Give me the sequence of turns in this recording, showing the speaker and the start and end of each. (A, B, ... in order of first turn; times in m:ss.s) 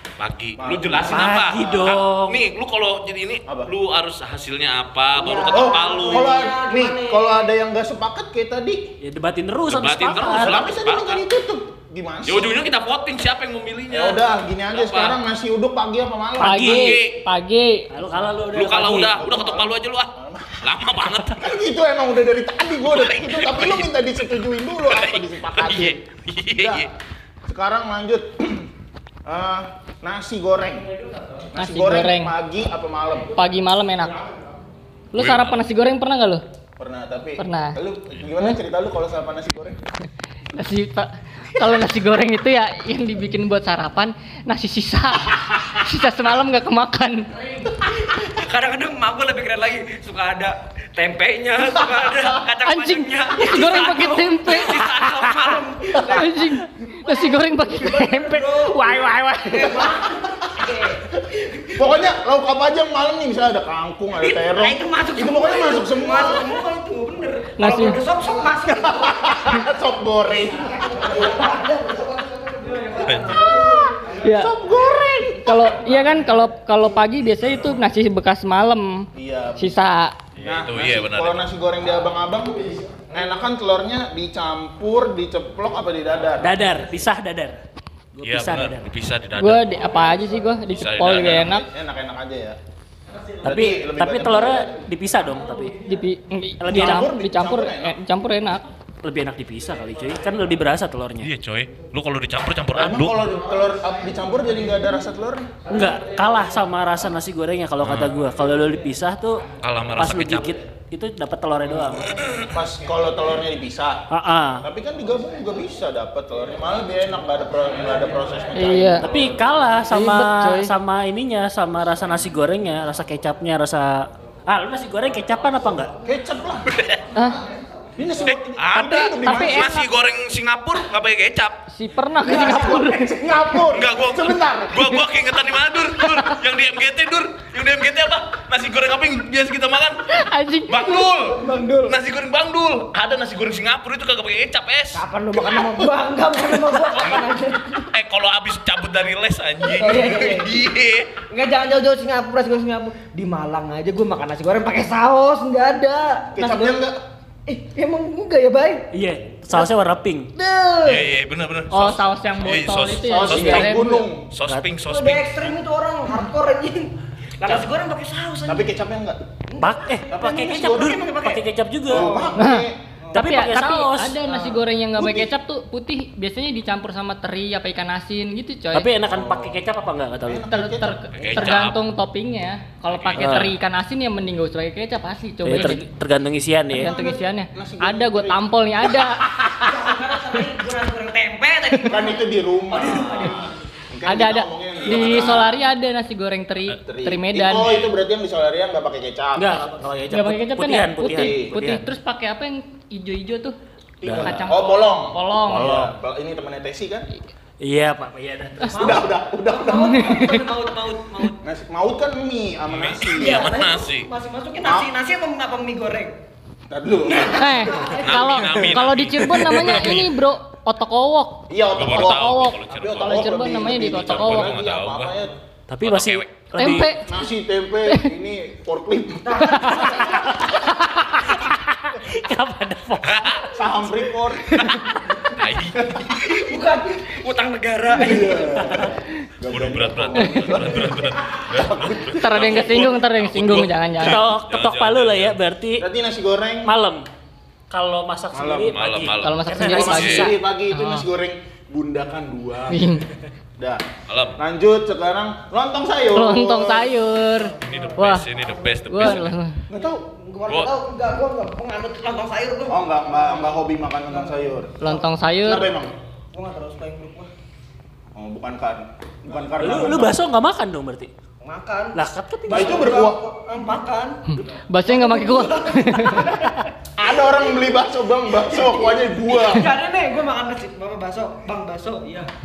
0:00.2-0:06.4 A
0:00.6-0:02.0 B
0:01.1-0:02.4 C
0:05.2-0:07.5 D
0:05.4-0:08.9 B
0:09.0-0:10.6 C
0:09.7-0:11.2 A
0:10.3-0:12.6 B
0:12.2-0:15.2 A
0:13.9-0:16.8 B
0:16.4-0:17.0 C
0:16.4-0:17.9 E
0:16.6-0:17.2 A
0:17.9-0:19.2 C
0:18.5-0:21.5 A
0:19.1-0:20.6 B
0:21.3-0:26.0 B
0:22.9-0:23.9 A
0:24.9-0:26.9 A
0:26.5-0:26.9 B
0:27.5-0:28.7 B
0:29.2-0:30.9 B
0:31.5-0:33.4 B
0:31.6-0:32.3 E
0:33.3-0:34.2 E
0:35.1-0:36.4 E
0:35.2-0:35.6 A
0:36.8-0:39.8 B
0:37.4-0:37.8 E
0:40.5-0:47.3 E
0:48.0-0:56.6 D
0:52.6-0:55.3 E
0:56.0-0:59.9 E
0:57.8-1:01.8 D
1:01.7-1:06.6 B
1:04.2-1:09.5 D
1:07.6-1:08.0 E
1:08.8-1:11.0 B
1:10.6-1:13.9 D
1:13.0-1:13.4 A
1:13.4-1:15.9 B
1:14.2-1:14.5 E
1:15.4-1:20.1 E
1:19.1-1:19.8 B
1:20.4-1:21.4 A
1:20.4-1:26.6 B
1:26.4-1:27.6 C
1:28.1-1:28.9 C
1:28.2-1:29.6 A
1:29.4-1:31.6 E
1:30.7-1:31.5 A
1:31.1-1:32.6 B
1:33.4-1:34.7 B
1:33.4-1:35.8 C
1:35.8-1:38.6 E
1:36.6-1:37.1 C
1:36.7-1:38.0 B
1:39.0-1:41.3 C
1:41.2-1:43.2 A
1:42.7-1:45.5 B
1:45.7-1:52.2 C
1:47.8-1:48.1 A
1:49.6-1:50.5 A
1:52.4-1:54.1 B
1:54.1-1:54.6 C
1:54.6-1:59.5 B
1:58.6-1:59.0 E
1:59.0-2:05.9 C
1:59.9-2:00.7 E
2:06.0-2:06.7 B
2:06.7-2:07.0 A
2:07.1-2:07.4 E
2:08.0-2:09.8 B
2:08.2-2:11.6 A
2:09.2-2:09.9 E
2:11.7-2:13.2 E
2:12.2-2:15.0 B
2:13.7-2:20.1 A
2:20.1-2:21.1 E
2:20.7-2:25.0 A
2:21.3-2:22.0 D
2:24.9-2:27.9 D
2:25.4-2:25.9 B
2:27.0-2:27.2 A
2:27.9-2:31.1 A
2:29.6-2:30.6 D
2:31.3-2:36.8 D
2:36.3-2:37.0 B
2:37.4-2:38.9 D
2:38.9-2:40.3 C
2:40.3-2:41.1 D
2:40.8-2:43.7 A
2:41.7-2:44.1 E
2:43.0-2:44.3 B
2:44.3-2:45.5 A
2:44.9-2:48.7 D
2:48.5-2:49.2 B
2:49.5-2:52.4 D
2:49.6-2:52.2 C
2:50.1-2:51.0 B
2:51.9-2:52.8 B
2:52.4-2:58.9 E
2:53.1-2:54.2 C
2:54.2-2:55.3 B
2:58.7-3:00.5 C
2:59.1-2:59.6 B
3:00.2-3:01.4 B
3:00.5-3:05.8 E
3:01.1-3:01.8 A
3:02.9-3:03.5 A
3:03.2-3:03.5 C
3:05.4-3:06.9 C
3:06.8-3:09.1 B
3:06.8-3:09.7 E
3:09.5-3:12.2 D
3:11.8-3:15.6 B
3:12.7-3:13.5 D
3:14.1-3:17.8 E
3:14.9-3:15.4 D
3:16.8-3:19.6 B
3:19.3-3:21.8 C
3:20.1-3:23.6 E
3:21.0-3:21.6 B
3:24.0-3:24.5 C
3:24.0-3:27.1 B
3:24.1-3:25.7 E
3:25.5-3:25.9 C
3:27.6-3:29.0 C
3:28.7-3:31.4 D
3:28.7-3:30.2 B
3:29.7-3:30.4 E
3:31.4-3:33.5 B
3:32.7-3:34.1 A
3:33.1-3:36.1 D
3:34.6-3:34.9 B
3:36.7-3:37.7 B
3:37.1-3:38.4 D
3:37.2-3:44.6 E
3:37.8-3:40.1 A
3:41.5-3:45.3 B
3:41.7-3:45.1 A
3:45.7-3:46.9 C
3:45.8-3:46.8 A
3:46.6-3:47.2 E
3:47.0-3:50.1 B
3:49.2-3:50.4 D
3:49.8-3:50.4 C
3:51.2-3:53.7 C
3:53.0-3:53.5 A
3:53.5-3:54.8 B
3:54.6-3:56.3 A
3:55.8-3:56.0 B
3:56.2-3:58.8 D
3:57.9-4:02.3 B
3:59.5-4:05.4 A
4:02.1-4:04.2 E
4:04.0-4:05.8 C
4:05.8-4:06.7 B
4:06.6-4:07.1 C
4:07.7-4:10.3 C
4:08.3-4:08.7 B
4:08.6-4:10.3 A
4:09.2-4:11.0 E
4:09.6-4:12.9 B
4:12.7-4:13.1 E
4:13.6-4:13.8 B
4:14.1-4:14.4 A
4:14.4-4:17.0 B
4:16.1-4:18.3 E
4:17.6-4:19.4 A
4:18.9-4:19.6 E
4:19.7-4:20.0 B
4:19.7-4:25.0 D
4:20.5-4:20.7 A
4:22.7-4:24.8 B
4:24.8-4:25.7 E
4:25.4-4:25.9 B
4:26.3-4:27.3 D
4:28.1-4:30.2 B
4:29.6-4:31.1 C
4:31.4-4:34.3 D
4:31.9-4:32.9 C
4:32.5-4:33.2 B
4:34.3-4:36.3 E
4:34.8-4:36.5 D
4:37.0-4:39.7 B
4:38.4-4:42.3 D